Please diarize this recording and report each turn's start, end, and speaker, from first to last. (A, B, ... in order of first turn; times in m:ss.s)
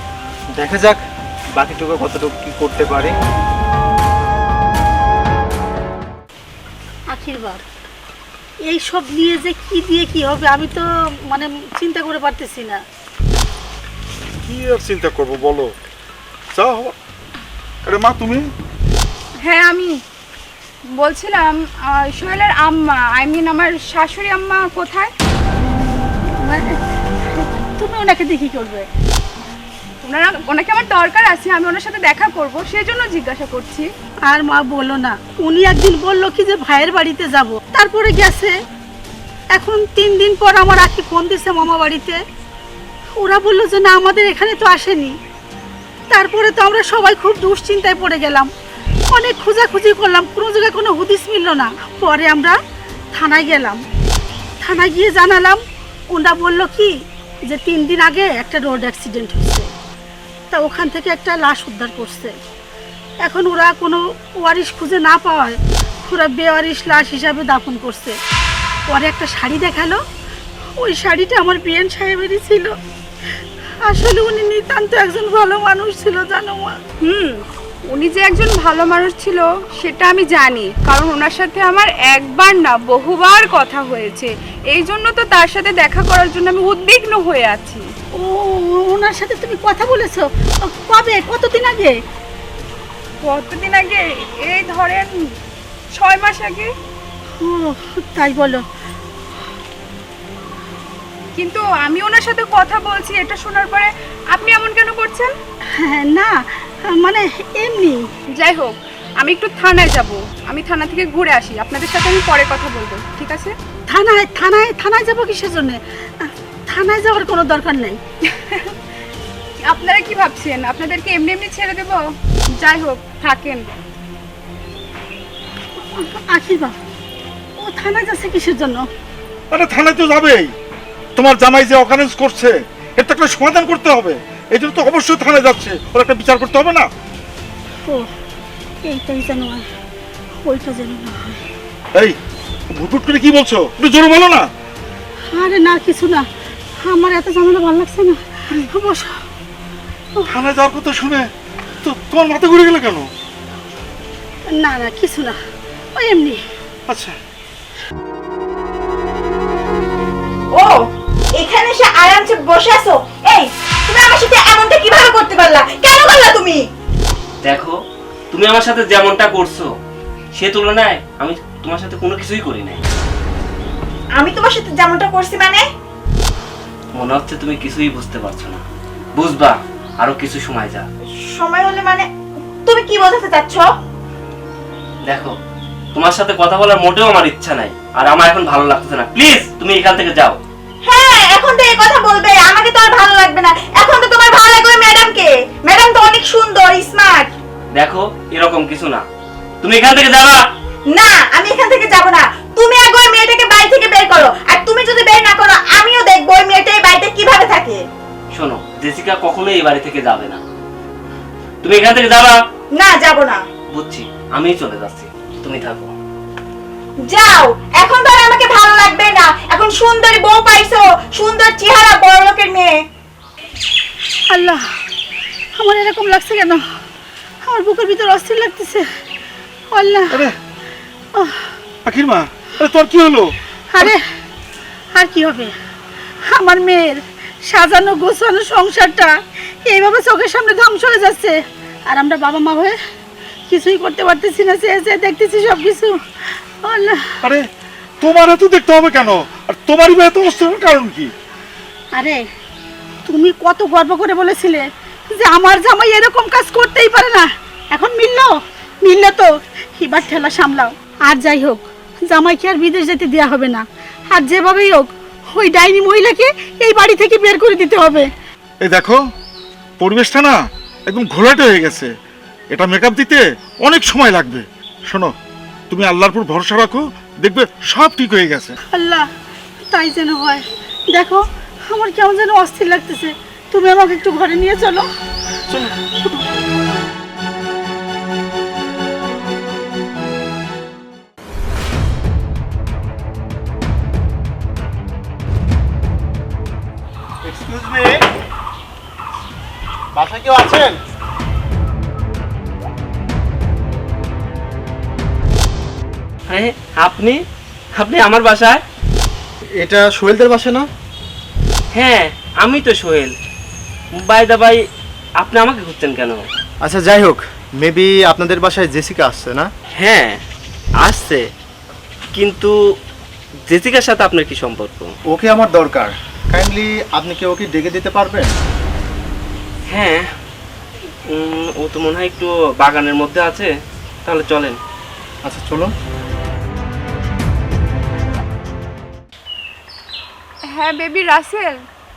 0:00.6-0:01.0 A
0:01.6-0:03.1 A
0:07.1-0:07.6 B
0:08.7-0:12.8 B
0:14.4-0:15.7 C
0:16.5-0:17.0 C
0:17.8-0:18.4 C
0:19.4-0:20.0 D
0:20.9-0:25.1 D
0:26.4-0:26.8 B
0:27.3-0:28.9 B
0:30.0-0:33.9 D
0:34.2-0:38.5 B
0:39.5-0:42.2 B
0:43.2-0:45.2 B
0:46.1-0:48.5 B
0:49.1-0:52.6 B
0:53.1-0:53.8 B
0:54.6-0:55.6 B
0:56.1-0:56.9 B
0:57.5-0:59.7 B
1:00.5-1:02.3 B
1:03.2-1:08.2 B
1:08.9-1:10.0 B
1:10.8-1:12.8 B
1:13.8-1:16.8 B
1:17.0-1:27.9 D
1:28.2-1:32.0 B
1:33.2-1:35.1 D
1:35.9-1:36.7 D
1:37.4-1:38.6 B
1:41.4-1:45.3 D
1:45.7-1:48.0 B
1:48.4-1:53.5 D
1:53.9-1:58.0 B
1:58.3-1:58.7 D
1:59.7-2:03.7 D
2:05.8-2:06.8 B
2:07.6-2:08.9 B
2:09.5-2:10.5 C
2:11.2-2:16.9 C
2:18.8-2:19.7 B
2:20.4-2:21.4 B
2:22.7-2:24.5 C
2:25.3-2:26.3 B
2:26.8-2:29.2 B
2:30.3-2:31.3 C
2:31.8-2:33.1 C
2:34.5-2:35.4 B
2:35.9-2:36.4 B
2:36.9-2:37.2 C
2:40.5-2:40.8 E
2:41.4-2:46.6 E
2:47.4-2:47.8 F
2:48.3-2:49.7 F
2:50.3-2:52.8 F
2:54.2-2:55.6 E
2:56.9-2:58.6 F
2:59.2-3:00.9 F
3:01.3-3:02.1 E
3:02.6-3:03.7 E
3:05.1-3:05.3 F
3:05.9-3:10.4 F
3:10.8-3:17.3 E
3:17.7-3:19.0 F
3:19.6-3:20.4 F
3:20.9-3:27.8 E
3:28.3-3:30.4 F
3:31.6-3:32.3 F
3:32.7-3:33.4 E
3:33.7-3:35.9 F
3:37.0-3:42.8 E
3:44.3-3:44.6 B
3:45.6-3:46.6 B
3:47.4-3:48.9 B
3:49.7-3:50.3 B
3:50.1-3:50.4 C
3:51.2-3:51.5 B
3:51.8-3:53.9 C
3:53.7-3:54.0 B
3:55.0-3:55.5 B
3:56.3-3:59.2 B
3:59.7-4:02.8 B
4:03.5-4:06.0 B
4:06.6-4:07.2 B
4:07.2-4:07.5 C
4:08.0-4:11.1 C
4:11.9-4:12.2 B
4:13.0-4:28.1 B
4:28.6-4:29.0 C
4:29.8-4:31.9 C
4:32.5-4:35.1 C
4:35.7-4:38.6 C
4:38.7-4:39.1 B
4:39.7-4:44.9 B
4:45.5-4:46.1 C
4:57.2-4:58.0 A
4:59.9-5:00.8 A
5:06.3-5:07.2 F
5:07.8-5:08.6 F
5:09.6-5:10.7 A
5:11.7-5:13.1 F
5:14.0-5:14.6 F
5:15.2-5:16.2 F
5:16.6-5:19.5 A
5:19.8-5:20.2 F
5:20.8-5:21.2 F
5:22.1-5:22.5 F
5:23.5-5:24.9 F
5:25.1-5:28.3 A
5:29.7-5:30.1 F
5:31.1-5:33.5 F
5:34.0-5:34.6 F
5:35.2-5:35.7 A
5:40.5-5:41.6 D